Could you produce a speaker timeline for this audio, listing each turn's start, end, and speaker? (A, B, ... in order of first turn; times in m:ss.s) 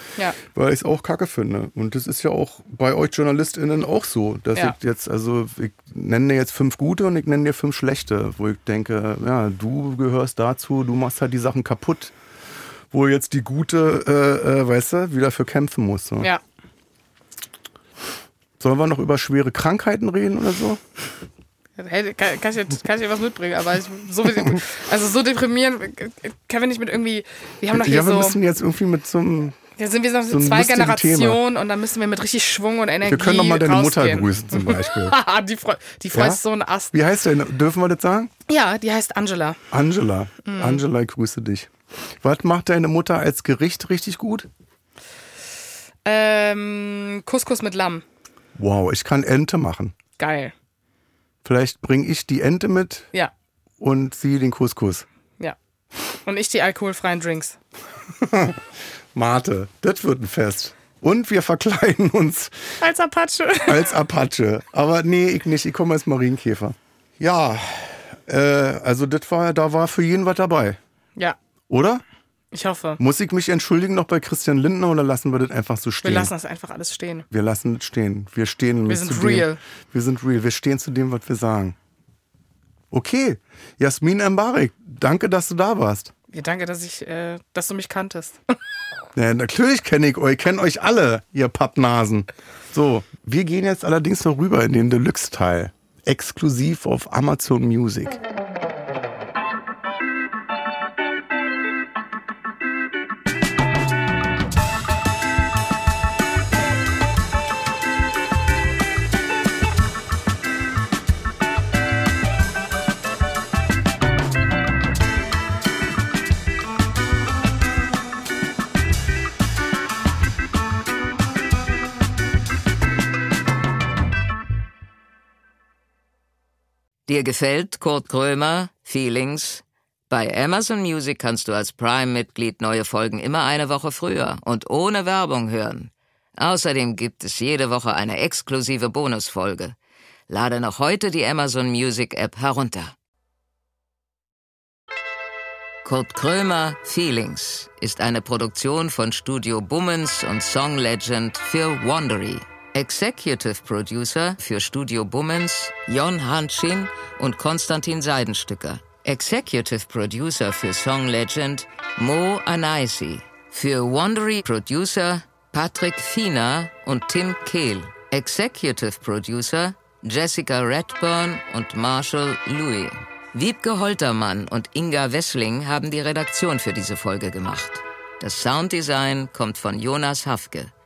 0:00.4-0:12.2 A
0:12.9-0:16.3 A
0:18.6-0:20.8 A
0:21.8-0:28.4 B
0:27.7-0:29.6 A
0:29.8-0:36.9 B
0:30.3-0:31.4 A
0:33.0-0:35.2 A
0:36.1-0:36.4 A
0:36.9-0:38.3 A
0:38.5-0:39.6 B
0:39.7-0:41.7 A
0:40.4-0:40.8 B
0:42.2-0:44.5 A
0:46.0-0:48.0 B
0:48.6-0:50.0 A
0:50.2-0:50.5 B
0:51.4-0:53.1 A
0:53.8-0:55.1 A
0:56.2-0:57.6 B
0:58.2-1:02.8 A
1:02.8-1:03.9 B
1:03.7-1:10.8 A
1:11.7-1:12.0 A
1:12.5-1:13.0 B
1:13.0-1:16.3 A
1:16.0-1:17.3 B
1:17.3-1:21.8 A
1:18.9-1:19.6 B
1:22.9-1:26.1 A
1:26.3-1:28.4 B
1:29.2-1:38.2 A
2:07.1-2:19.8 C
2:20.3-2:22.9 C
2:25.8-3:00.7 C